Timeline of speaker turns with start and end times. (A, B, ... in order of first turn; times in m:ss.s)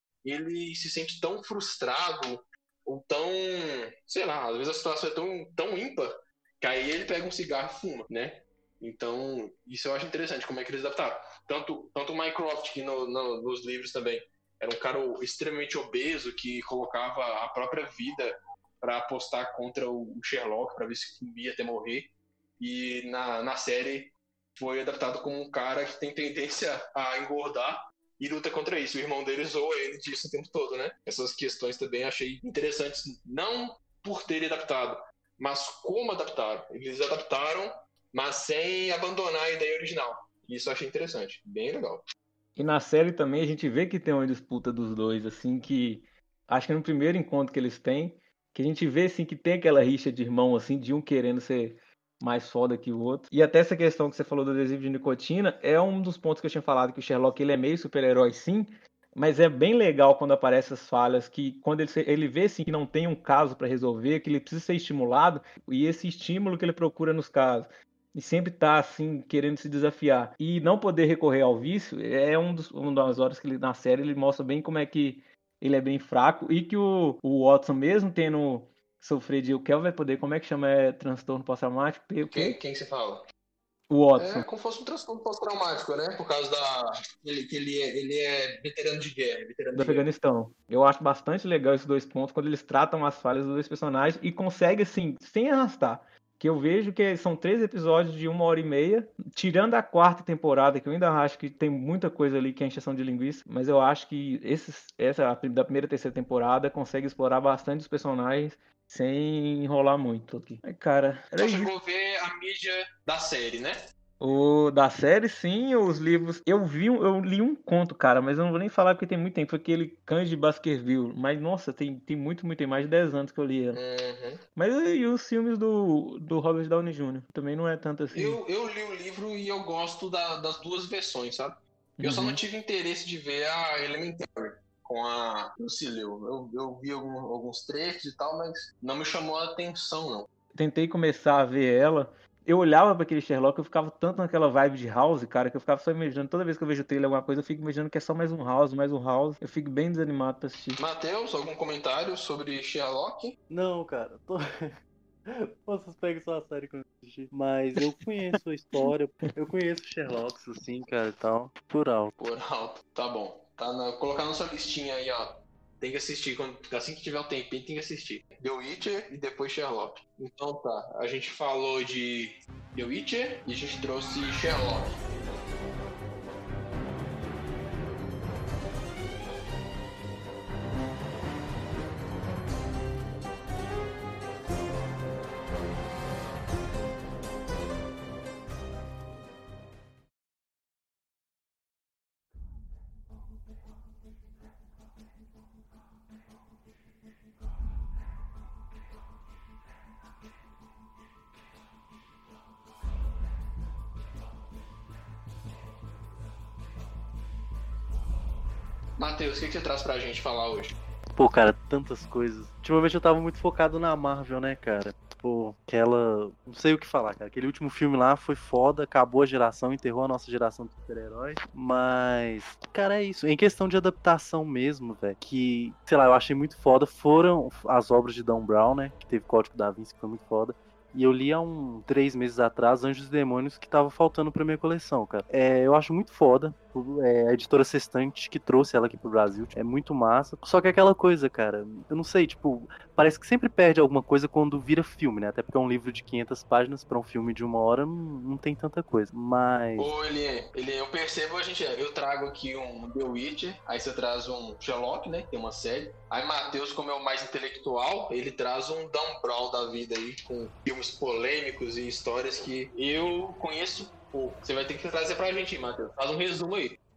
0:00.2-0:42.0 A
0:42.6-1:22.6 B
1:22.3-1:23.2 A
1:23.9-1:24.4 B
1:24.2-1:30.1 A
1:29.7-1:51.7 B
1:51.4-1:53.8 A
1:54.2-2:03.8 B
2:03.7-2:04.4 A
2:04.6-2:08.4 B
2:08.1-2:20.3 A
2:12.0-2:12.4 B
2:20.5-2:30.8 B
2:30.8-2:33.4 A
2:33.5-2:42.1 C
2:42.2-2:55.0 A
3:29.0-3:30.7 A
3:31.2-4:09.9 C
4:09.8-4:26.8 A